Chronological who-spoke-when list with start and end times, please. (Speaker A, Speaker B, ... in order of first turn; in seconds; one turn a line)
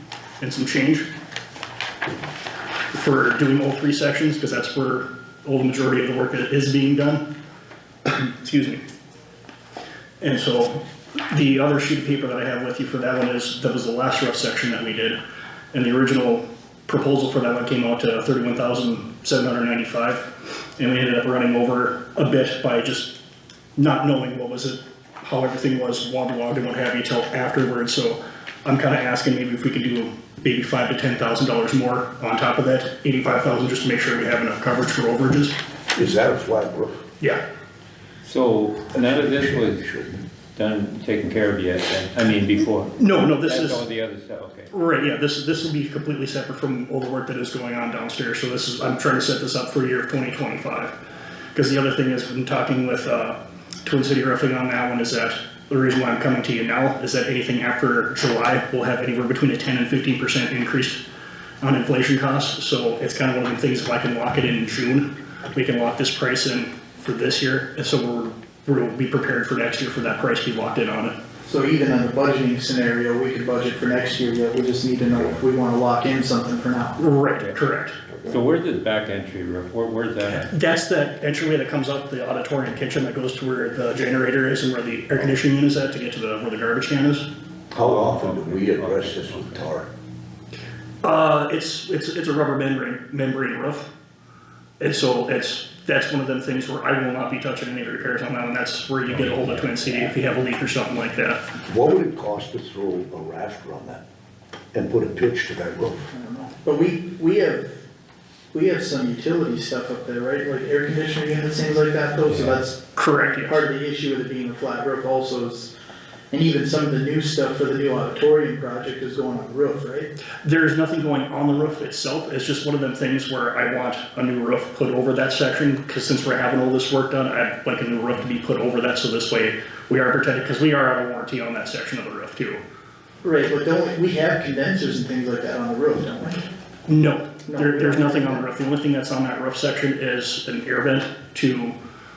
Speaker A: 0.4-1.1
Speaker A: 2.9-7.2
Speaker A: 8.1-8.8
Speaker A: 10.2-10.8
Speaker A: 11.3-15.2
Speaker A: 15.7-23.2
Speaker A: 23.8-35.5
Speaker B: 36.0-37.0
Speaker C: 38.2-39.9
Speaker B: 38.9-40.2
Speaker C: 40.6-44.7
Speaker A: 43.0-43.8
Speaker A: 44.7-50.9
Speaker A: 51.5-61.0
Speaker A: 61.6-71.2
Speaker D: 71.5-77.0
Speaker A: 77.0-78.0
Speaker B: 78.1-78.4
Speaker C: 78.3-80.5
Speaker A: 80.2-87.3
Speaker B: 87.7-89.9
Speaker C: 87.8-89.7
Speaker A: 91.0-93.9
Speaker A: 94.8-101.4
Speaker C: 99.1-99.8
Speaker B: 101.7-104.0
Speaker B: 104.7-106.1
Speaker D: 106.1-107.8
Speaker D: 108.5-115.7
Speaker A: 113.0-113.6
Speaker D: 116.3-120.1
Speaker A: 120.4-132.6
Speaker D: 133.2-136.4
Speaker A: 136.9-141.8
Speaker D: 137.5-138.4